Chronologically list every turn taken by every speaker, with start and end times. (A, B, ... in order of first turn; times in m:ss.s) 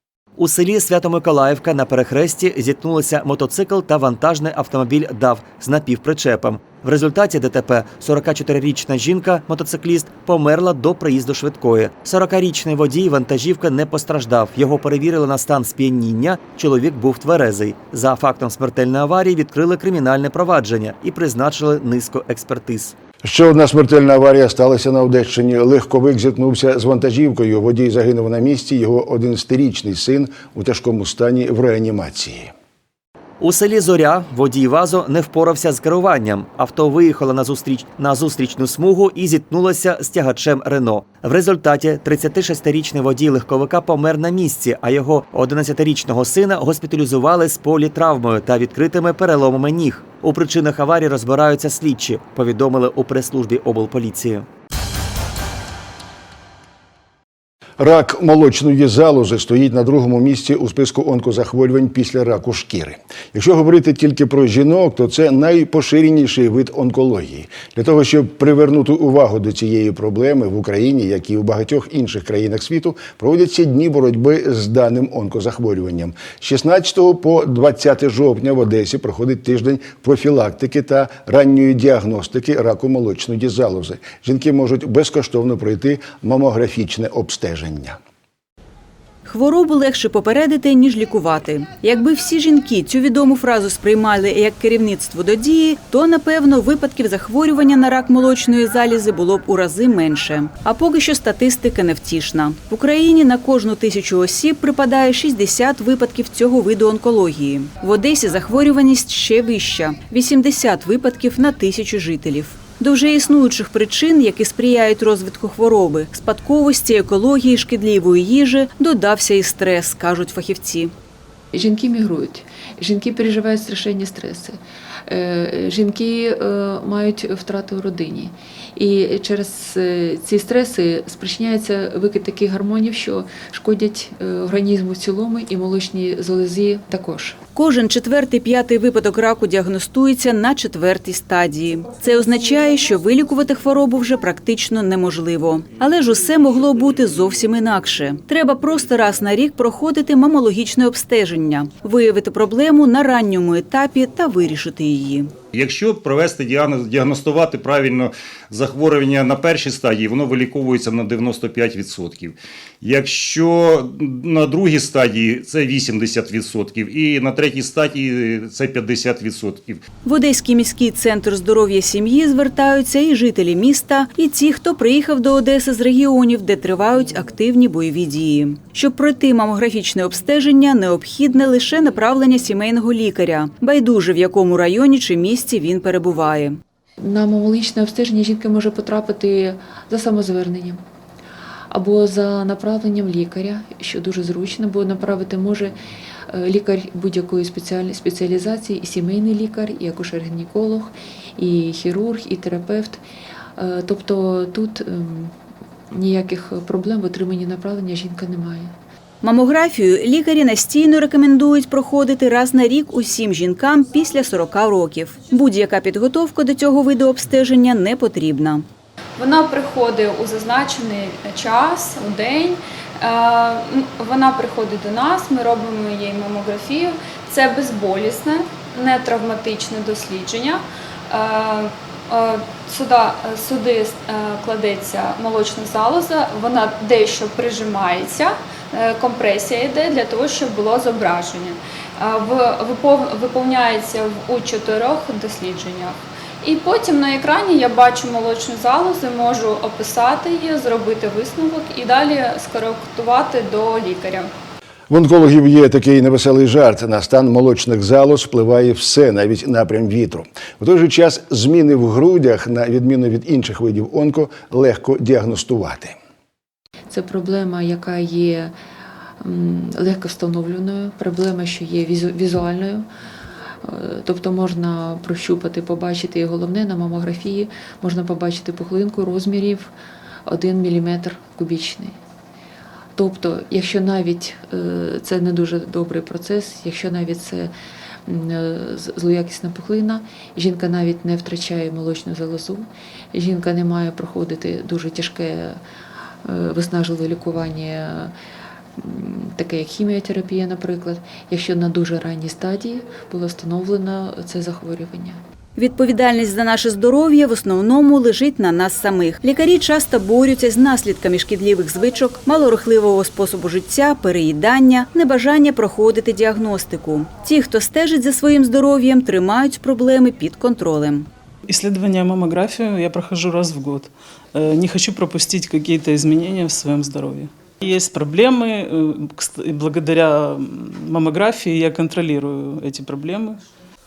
0:00.4-0:22.9 A
0:23.2-0:32.5 B
0:33.4-0:54.4 A
0:57.8-1:28.0 B
1:29.2-2:00.9 C
2:01.5-2:17.4 D
2:17.5-2:35.3 C
2:35.5-2:49.8 E
2:50.0-3:06.6 C
3:07.0-3:10.8 D
3:11.7-3:15.8 D
3:16.3-3:23.0 D
3:23.6-3:25.3 D
3:25.9-3:28.7 D
3:29.2-3:38.6 C
3:39.2-4:14.3 F
4:14.9-4:26.0 B
4:26.9-4:28.5 D
4:29.2-4:32.9 D
4:33.6-4:39.7 D
4:40.2-4:42.0 D
4:42.9-4:47.5 D
4:48.0-4:55.6 D
4:56.2-4:58.1 D
4:58.8-5:05.2 D
5:05.6-5:21.1 C
5:21.5-5:33.4 G